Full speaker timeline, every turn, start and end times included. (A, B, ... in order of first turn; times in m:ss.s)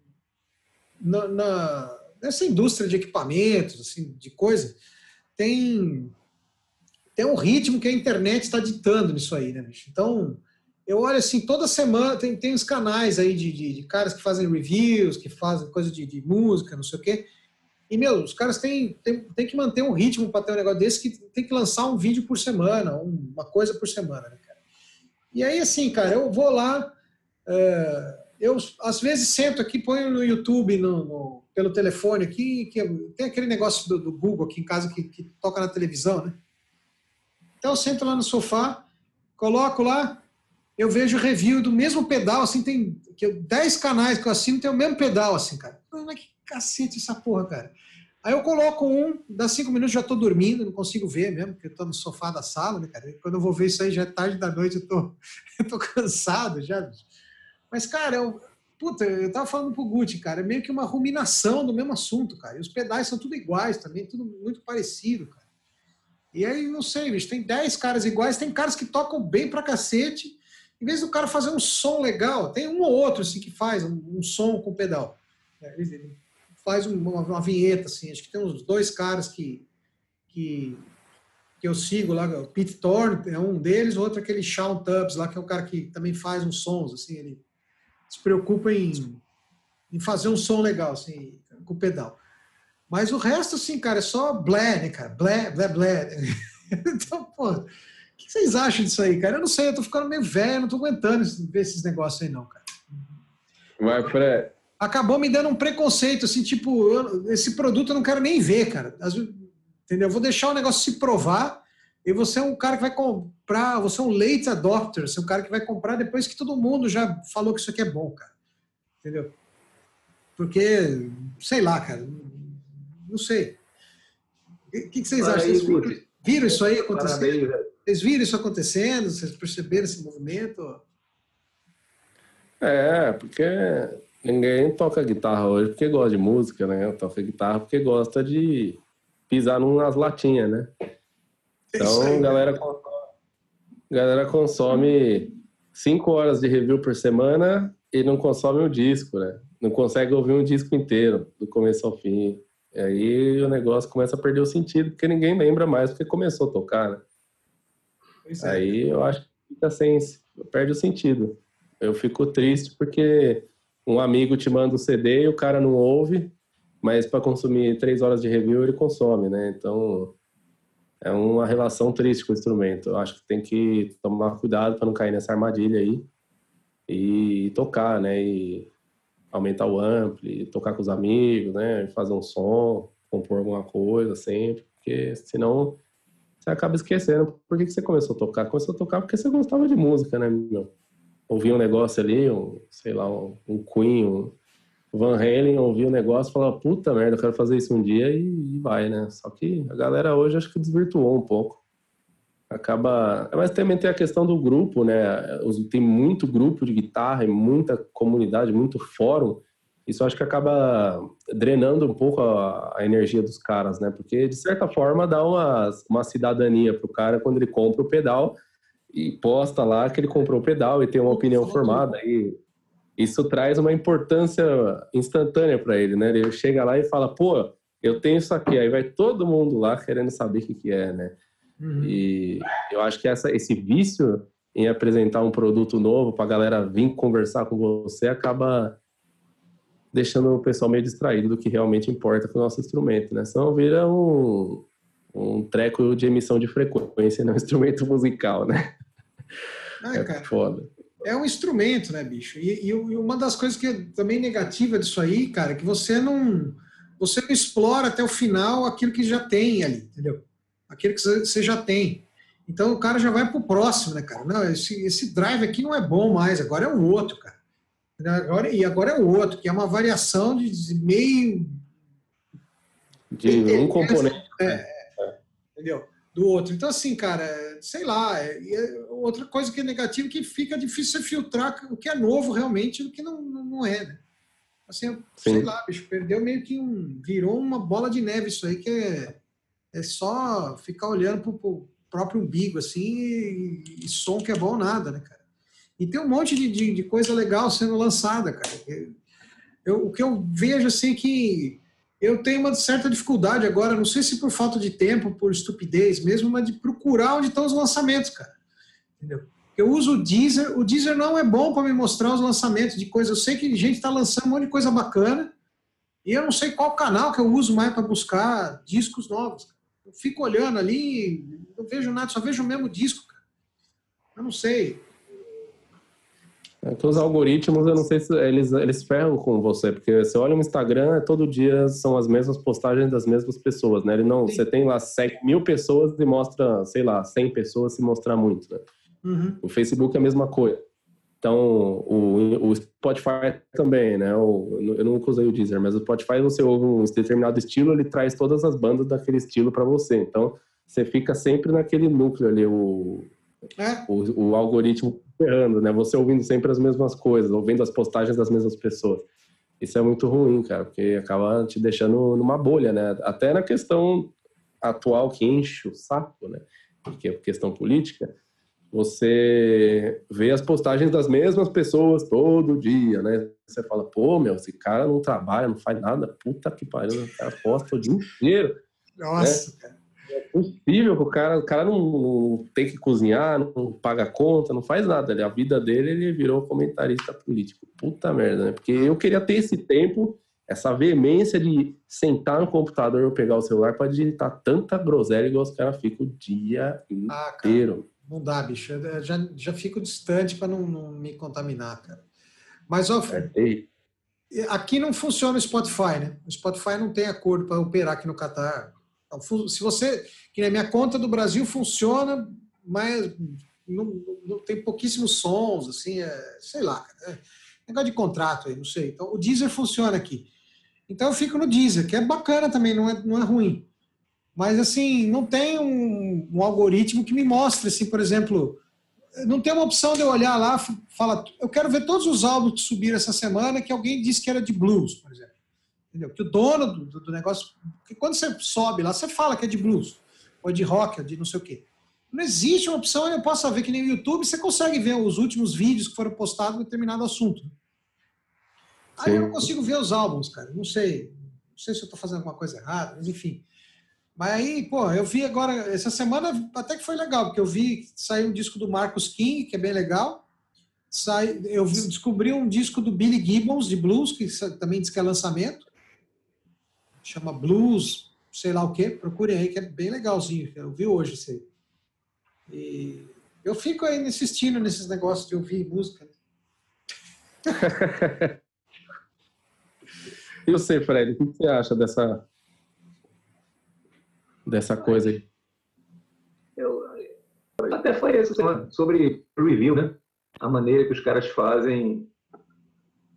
0:01.0-0:04.8 A
0:05.4-0:06.1 A
0:07.2-0:17.2 A
0:17.9-0:24.5 A
0:25.3-0:26.9 A
0:27.5-0:36.4 A
0:37.6-0:38.8 A
0:39.4-0:40.2 A
0:40.8-0:47.7 A
0:48.2-0:57.1 A
0:57.7-1:05.4 A
1:06.3-1:19.6 A
1:20.3-1:20.9 A
1:21.6-1:27.4 A
1:28.1-1:29.2 A
1:29.9-1:32.2 A
1:32.9-1:37.7 A
1:38.2-1:42.8 A
1:43.8-1:44.5 B
1:44.8-1:58.3 A
1:59.0-1:59.3 A
2:00.4-2:03.6 A
2:04.7-2:10.8 A
2:05.2-2:07.6 C
2:12.6-2:20.7 B
2:21.7-2:22.7 A
2:21.8-2:22.7 B
2:23.9-2:37.0 B
2:38.2-2:38.8 A
2:38.4-2:46.3 B
2:46.8-2:50.1 B
2:51.0-2:56.0 B
2:56.9-2:58.7 B
2:59.3-3:05.8 B
3:06.4-3:10.7 B
3:11.3-3:14.3 B
3:14.9-3:21.6 B
3:22.5-3:38.3 B
3:38.9-3:42.4 B
3:41.1-3:41.9 A
3:43.0-3:51.1 B
3:51.6-3:52.0 A
3:51.8-3:58.7 B
3:59.9-4:08.6 B
4:09.8-4:10.3 A
4:09.9-4:10.7 B
4:11.0-4:27.4 A
4:28.0-4:31.6 A
4:33.1-4:35.1 B
4:33.3-4:34.8 A
4:35.6-4:44.0 A
4:44.7-4:49.2 A
4:45.2-4:45.5 B
4:49.7-4:55.2 A
4:55.8-4:58.9 A
4:59.6-5:08.3 A
5:09.0-5:15.3 A
5:16.0-5:23.2 A
5:24.2-5:24.8 A
5:26.6-5:38.6 B
5:39.0-5:39.4 A
5:39.4-5:40.6 B
5:41.2-5:53.1 B
5:53.6-5:53.9 A
5:53.9-5:59.0 B
5:59.6-6:04.1 B
6:04.6-6:08.1 B
6:08.7-6:18.5 B
6:19.0-6:19.7 A
6:20.1-6:37.8 B
6:37.1-6:42.0 A
6:42.7-6:43.3 A
6:43.1-6:43.6 B
6:44.3-7:00.2 A
7:00.9-7:03.6 A
7:04.4-7:08.6 A
7:09.2-7:15.3 A
7:15.9-7:27.5 A
7:29.0-7:33.4 A
7:29.0-7:29.5 B
7:34.2-7:40.2 A
7:40.9-7:45.7 A
7:47.0-7:51.4 A
7:52.5-7:56.1 A
7:57.6-7:58.3 B
8:00.5-8:02.2 B
8:04.5-8:05.2 B
8:04.8-8:05.2 C
8:06.6-8:07.0 C
8:07.6-8:12.1 C